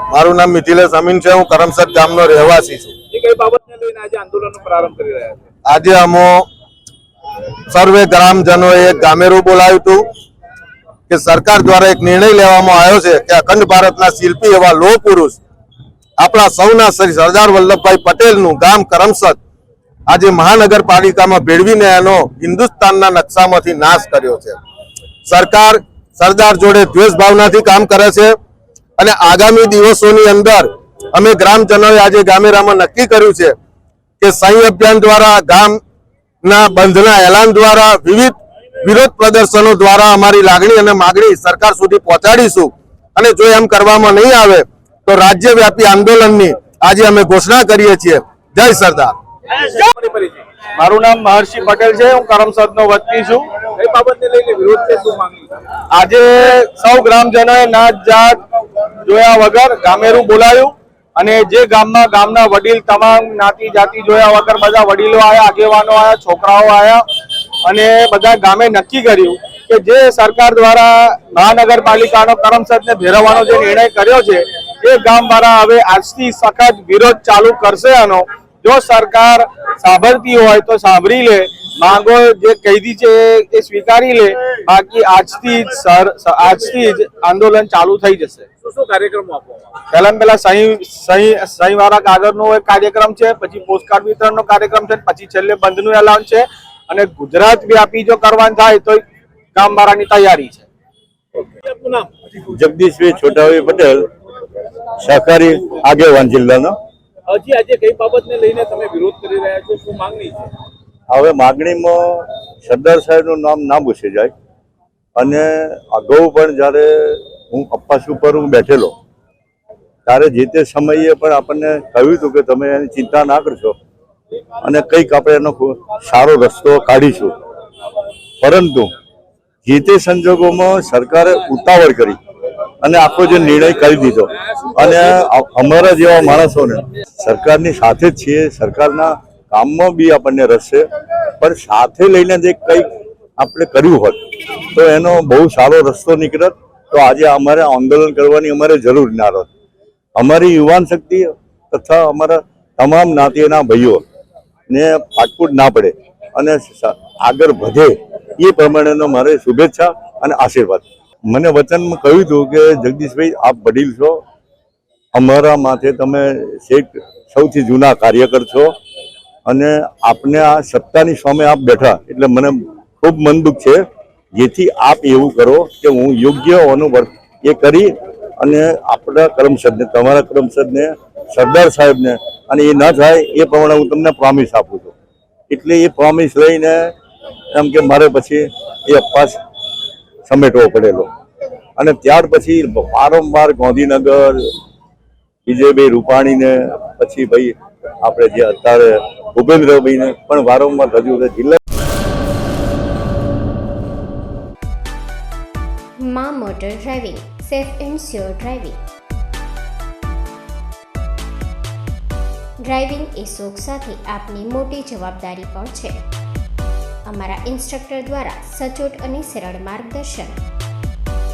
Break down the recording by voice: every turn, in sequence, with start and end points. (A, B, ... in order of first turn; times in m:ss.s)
0:00.1-0:02.9 A
0:03.1-0:05.4 B
0:05.7-0:06.5 A
0:07.7-0:10.0 A
0:11.1-0:15.4 A
0:16.2-0:19.4 A
0:20.1-0:24.6 A
0:25.3-0:28.4 A
0:29.0-0:33.6 A
0:34.2-0:35.8 A
0:36.4-0:49.2 A
0:49.6-0:50.4 B
0:50.8-0:53.6 C
0:53.7-0:55.5 B
0:55.9-0:58.4 C
0:59.1-1:07.0 C
1:07.7-1:28.5 C
1:28.6-1:29.8 B
1:29.9-1:39.0 C
1:39.6-1:40.7 C
1:41.4-1:42.1 B
1:42.4-1:44.1 D
1:45.0-1:46.8 D
1:47.3-1:50.5 B
1:51.1-1:54.3 D
1:55.2-1:58.9 D
2:00.1-2:03.8 D
2:04.6-2:07.4 D
2:08.4-2:08.9 D
2:09.6-2:12.2 D
2:12.8-2:20.9 D
2:21.4-2:29.5 D
2:30.2-2:34.0 D
2:34.7-2:44.2 D
2:45.1-2:48.7 D
2:49.5-2:53.8 D
2:54.3-3:04.9 D
3:05.5-3:06.9 D
3:07.5-3:09.4 D
3:10.3-3:11.1 D
3:11.8-3:14.5 D
3:15.5-3:21.6 D
3:26.0-3:28.8 E
3:32.6-3:36.0 E
3:37.1-3:40.4 E